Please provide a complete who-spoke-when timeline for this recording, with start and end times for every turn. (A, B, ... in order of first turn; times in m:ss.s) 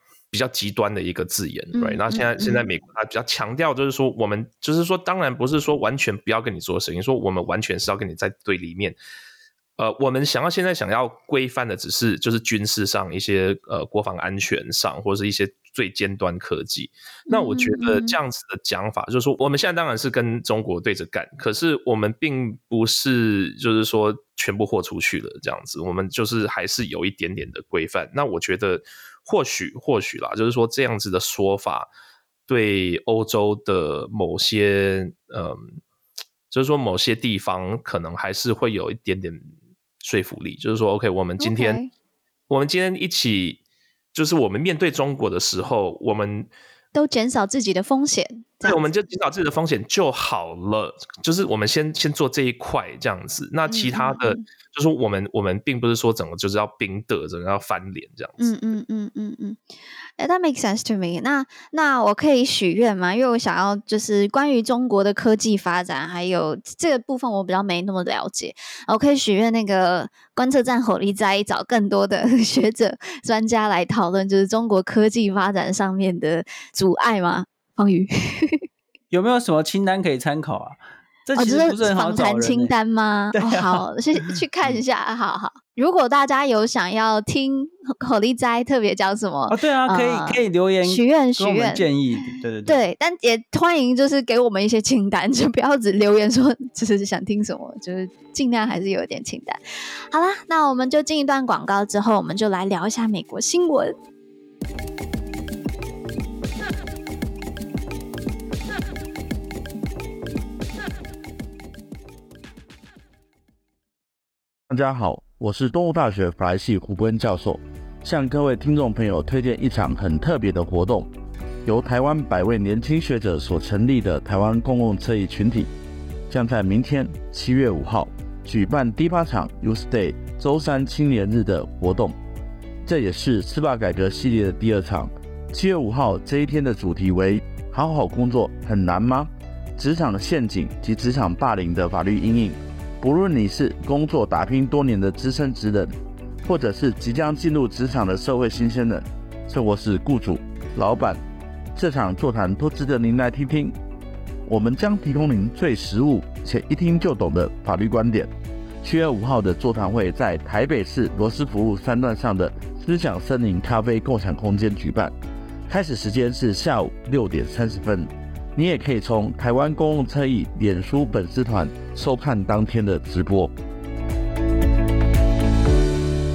0:00.3-0:09.0 A
0:01.7-0:02.6 B
0:09.8-0:31.9 A
0:17.3-0:18.2 B
0:32.5-0:35.8 A
0:36.5-0:39.5 A
0:40.0-0:41.8 A
0:41.4-0:41.9 B
0:42.5-0:43.6 A
0:44.1-0:46.5 A
0:46.9-0:49.0 B
0:48.6-0:58.6 A
0:53.7-0:54.4 B
0:58.4-0:59.6 B
1:00.2-1:18.6 B
1:19.1-1:22.7 C
1:21.4-1:31.9 B
1:23.3-1:23.8 C
1:29.5-1:32.8 C
1:32.7-1:39.6 B
1:40.1-1:44.0 B
1:54.7-2:01.1 D
2:01.6-2:05.7 D
2:06.3-2:12.2 D
2:12.9-2:25.9 D
2:26.4-2:31.2 D
2:31.8-2:33.7 D
2:34.5-2:38.3 D
2:38.8-2:45.1 D
2:45.7-2:53.5 D